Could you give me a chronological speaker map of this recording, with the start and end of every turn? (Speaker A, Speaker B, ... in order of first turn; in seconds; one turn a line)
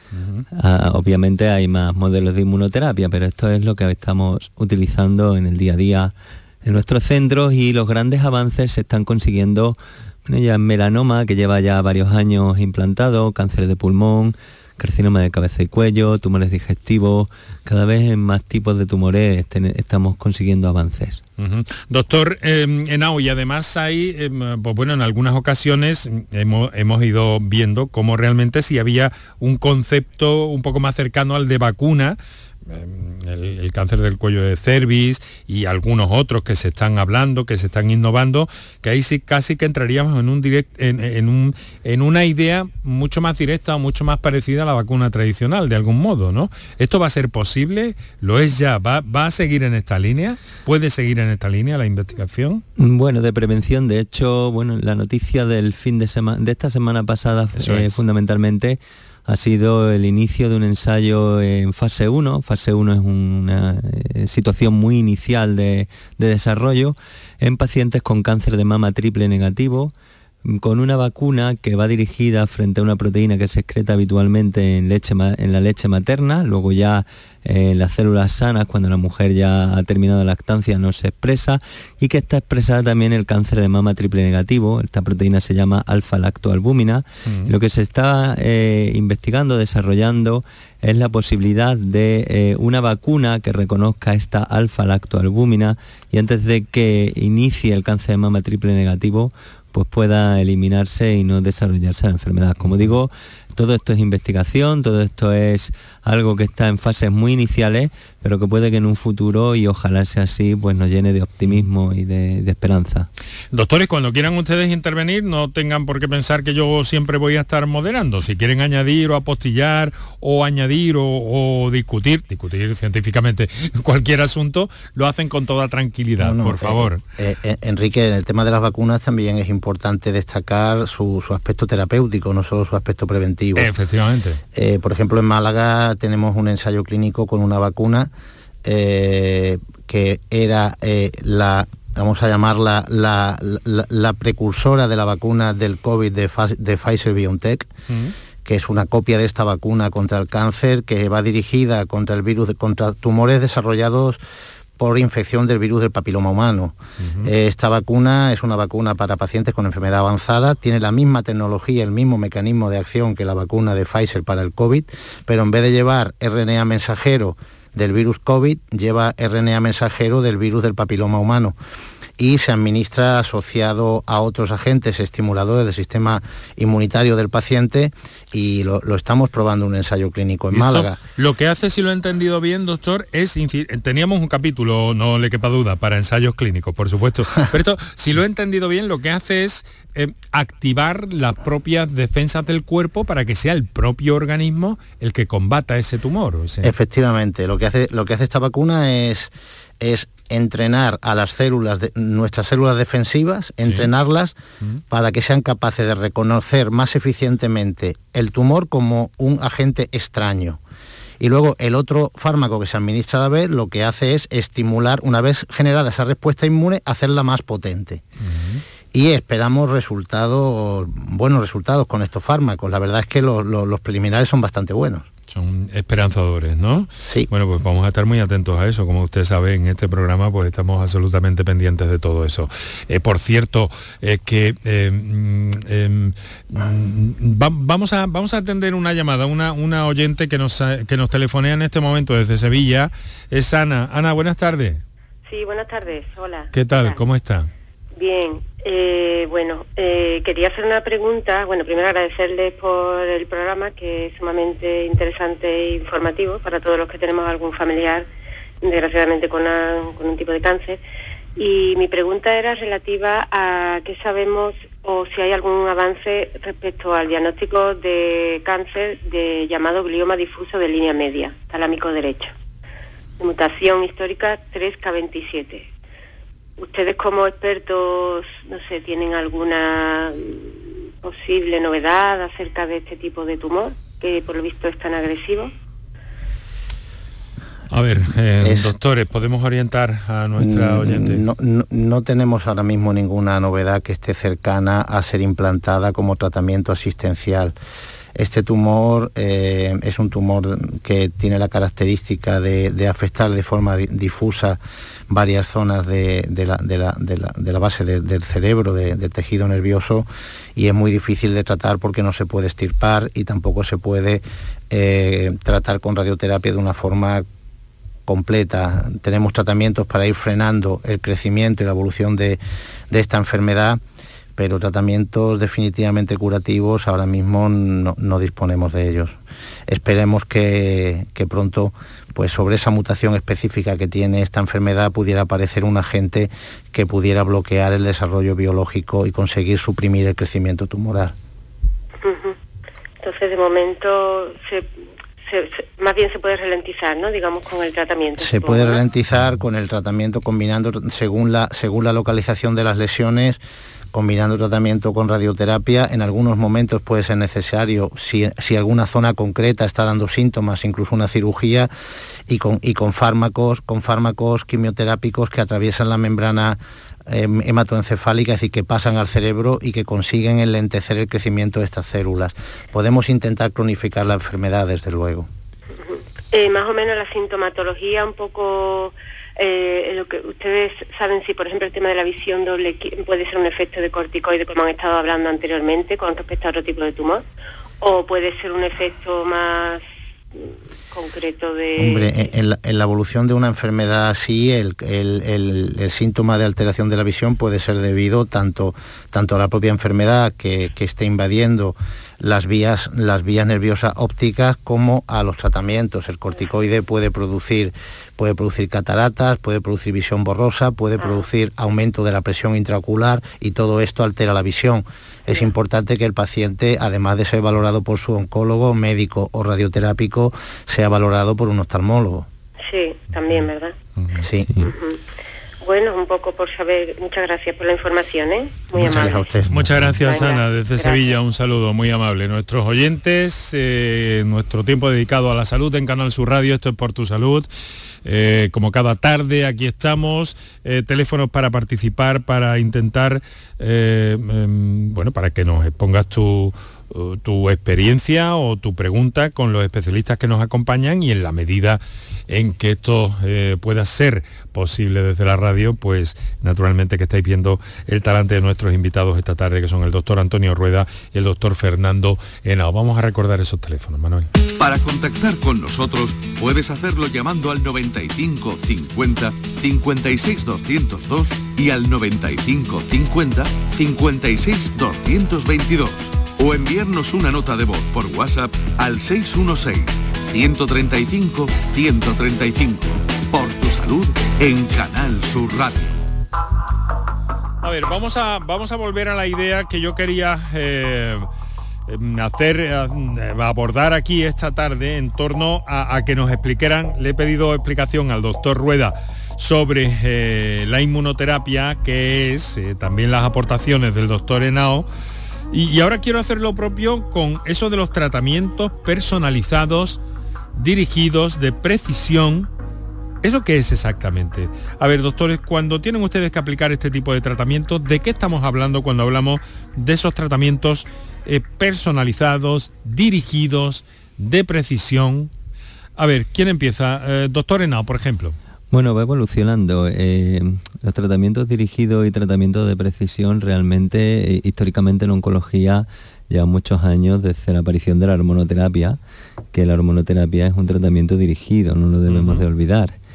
Speaker A: 0.1-0.4
Speaker B: 0.5-21.2
Speaker A: 21.4-52.6
Speaker B: 52.8-69.9
Speaker A: 57.5-58.0
Speaker B: 70.4-113.1
Speaker A: 87.2-87.5
Speaker A: 102.6-102.9
Speaker A: 113.5-127.0
Speaker C: 126.2-133.7
Speaker A: 133.6-134.4
Speaker C: 134.5-138.1
Speaker C: 138.6-147.7
Speaker A: 147.9-148.1
Speaker C: 148.4-154.2
Speaker C: 154.8-171.5
Speaker A: 157.0-157.3
Speaker C: 172.2-181.0
Speaker A: 180.5-196.7
Speaker C: 196.6-204.3
Speaker A: 203.6-203.9
Speaker C: 204.9-210.6
Speaker C: 211.2-218.0
Speaker A: 218.2-218.6
Speaker C: 218.9-225.1
Speaker A: 225.3-244.8
Speaker D: 245.3-247.0
Speaker A: 246.5-247.5
Speaker D: 248.0-258.1
Speaker D: 258.6-260.8
Speaker D: 261.4-272.3
Speaker D: 273.2-275.7
Speaker D: 276.6-285.5
Speaker A: 287.7-291.2
Speaker C: 288.4-288.7
Speaker C: 290.4-297.5
Speaker C: 298.1-304.6
Speaker C: 305.1-317.2
Speaker C: 318.1-322.4
Speaker C: 322.9-323.8
Speaker C: 324.4-329.2
Speaker C: 329.7-341.1
Speaker D: 342.0-342.4
Speaker D: 343.0-344.7
Speaker D: 345.2-348.8
Speaker C: 348.2-353.4
Speaker C: 353.9-361.7
Speaker C: 362.3-375.3
Speaker D: 375.8-387.2
Speaker D: 387.8-389.8
Speaker D: 390.9-392.3
Speaker C: 391.8-422.3
Speaker D: 422.6-423.7
Speaker C: 424.2-424.6
Speaker D: 424.6-425.0
Speaker D: 425.6-429.4
Speaker C: 428.8-430.0
Speaker A: 428.8-437.5
Speaker D: 429.9-431.2
Speaker A: 438.0-464.3
Speaker E: 464.6-486.0
Speaker A: 487.6-491.3
Speaker A: 491.9-504.9
Speaker A: 505.5-510.0
Speaker A: 510.6-512.5
Speaker A: 513.2-525.3
Speaker A: 526.0-528.4
Speaker B: 528.7-539.0
Speaker B: 539.5-543.0
Speaker A: 542.1-542.4